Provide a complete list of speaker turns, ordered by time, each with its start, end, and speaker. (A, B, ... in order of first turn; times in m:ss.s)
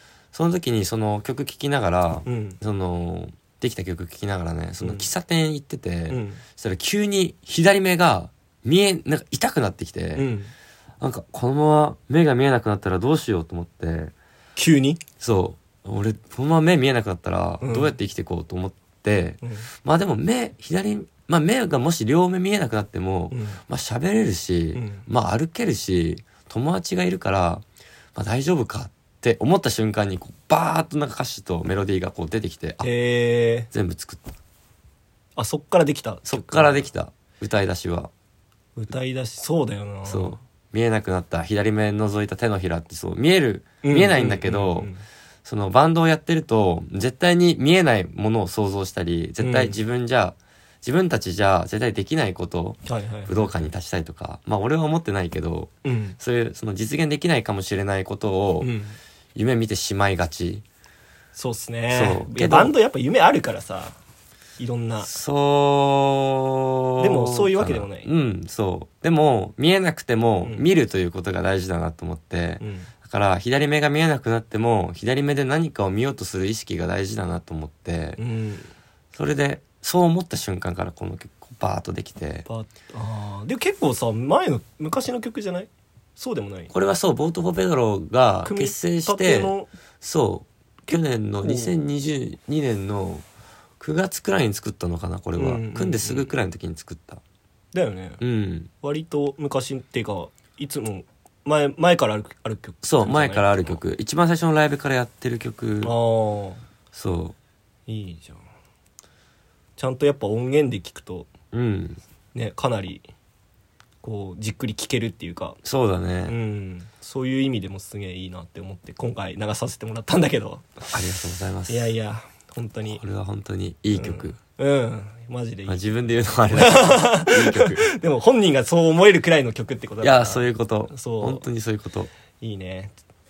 0:00.3-0:10.3 A
0:02.2-0:02.6 B
0:04.8-0:05.1 B
0:06.1-0:06.4 B
0:10.2-0:10.5 B
0:11.0-0:14.1 A
0:14.6-0:15.0 B
0:15.2-0:27.6 A
0:17.6-0:17.9 B
0:19.4-0:19.7 B
0:23.3-0:23.6 B
0:24.7-0:25.0 B
0:28.1-0:32.9 A
0:32.8-0:33.7 B
0:33.7-0:34.3 A
0:35.4-0:36.8 B
0:36.2-0:38.1 A
0:38.8-0:40.4 B
0:40.0-0:44.9 A
0:43.8-0:45.0 B
0:45.4-0:58.7 A
0:49.4-0:49.8 B
0:52.8-0:53.5 B
0:55.8-0:56.2 B
0:58.6-0:59.0 B
0:59.3-1:00.6 A
1:01.3-1:03.9 B
1:01.9-1:02.7 A
1:04.6-1:05.1 B
1:05.0-1:18.2 A
1:07.0-1:08.1 B
1:12.6-1:12.9 B
1:18.2-1:18.7 B
1:19.1-1:22.4 A
1:22.4-1:26.7 B
1:26.7-1:33.2 A
1:28.4-1:29.7 B
1:31.4-1:31.7 B
1:33.8-1:37.2 A
1:35.4-1:36.3 B
1:37.7-1:38.2 B
1:38.2-1:38.7 A
1:38.8-1:43.8 B
1:42.8-1:45.9 A
1:45.8-1:46.6 B
1:46.9-1:47.3 A
1:47.9-1:48.4 B
1:49.8-1:51.3 B
1:51.5-1:52.0 A
1:52.3-1:53.0 B
1:54.0-1:55.6 B
1:55.6-1:56.3 A
1:56.2-2:00.9 B
2:00.9-2:01.9 A
2:01.7-2:03.0 B
2:02.9-2:04.4 A
2:03.9-2:05.8 B
2:05.7-2:07.9 A
2:06.5-2:11.4 B
2:10.0-2:12.1 A
2:12.4-2:12.9 B